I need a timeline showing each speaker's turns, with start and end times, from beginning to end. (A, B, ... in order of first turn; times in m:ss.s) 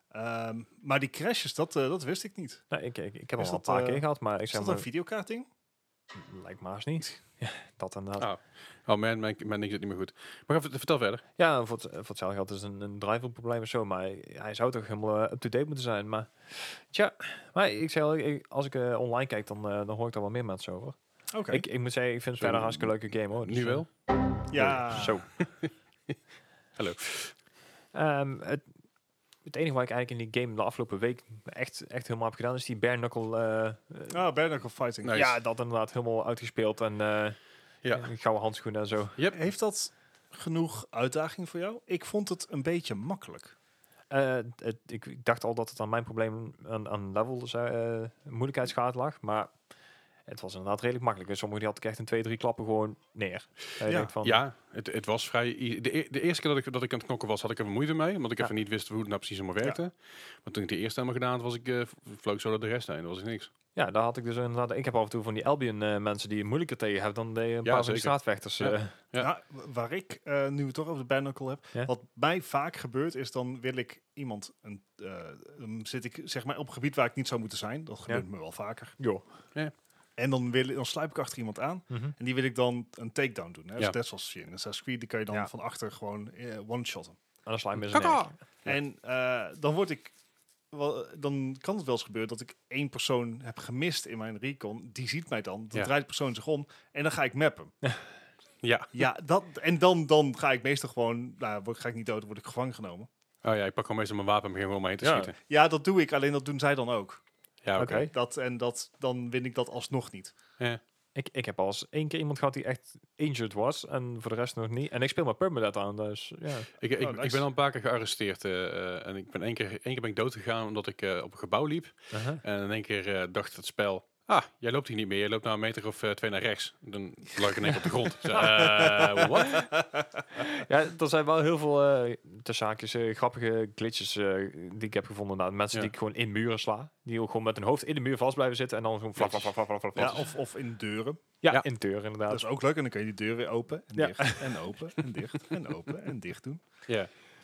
0:00.1-0:02.6 A
0:02.7-0:04.8 B
0:03.4-0:05.5 A
0:06.2-0:08.3 B
0:08.2-0:11.2 C
0:11.4-0:21.0 B
0:21.3-0:21.6 A
0:21.5-0:25.4 B
0:22.4-0:23.9 C
0:24.5-0:25.2 A
0:25.3-0:26.2 C
0:26.8-0:27.3 C
0:27.9-0:28.6 B
0:29.4-0:34.2 B
0:34.1-0:35.3 A
0:35.0-0:35.3 C
0:35.1-0:37.4 B
0:37.8-0:38.1 C
0:37.9-0:39.2 B
0:39.3-0:43.5 A
0:44.1-0:49.5 B
0:50.3-0:54.4 B
0:53.8-0:54.1 A
0:54.2-1:03.5 C
1:03.8-1:09.0 B
1:07.6-1:09.3 C
1:09.2-1:19.0 A
1:19.0-1:19.2 B
1:20.2-1:27.2 A
1:21.9-1:22.2 B
1:27.4-1:28.4 B
1:27.9-1:28.3 C
1:28.6-1:30.1 A
1:30.7-1:37.7 A
1:38.6-1:39.0 C
1:38.9-1:43.1 A
1:43.4-1:45.4 C
1:45.0-1:45.3 B
1:45.4-1:47.2 A
1:47.6-1:48.1 C
1:47.8-1:48.1 B
1:48.1-1:50.3 A
1:51.2-1:56.7 B
1:56.8-2:09.7 C
1:57.0-1:57.4 A
2:02.1-2:02.4 B
2:08.6-2:09.1 A
2:08.7-2:09.7 B
2:10.4-2:20.3 B
2:19.2-2:20.2 C
2:19.9-2:21.2 A
2:21.4-2:22.4 B
2:22.3-2:26.6 A
2:23.9-2:24.6 B
2:26.9-2:27.1 C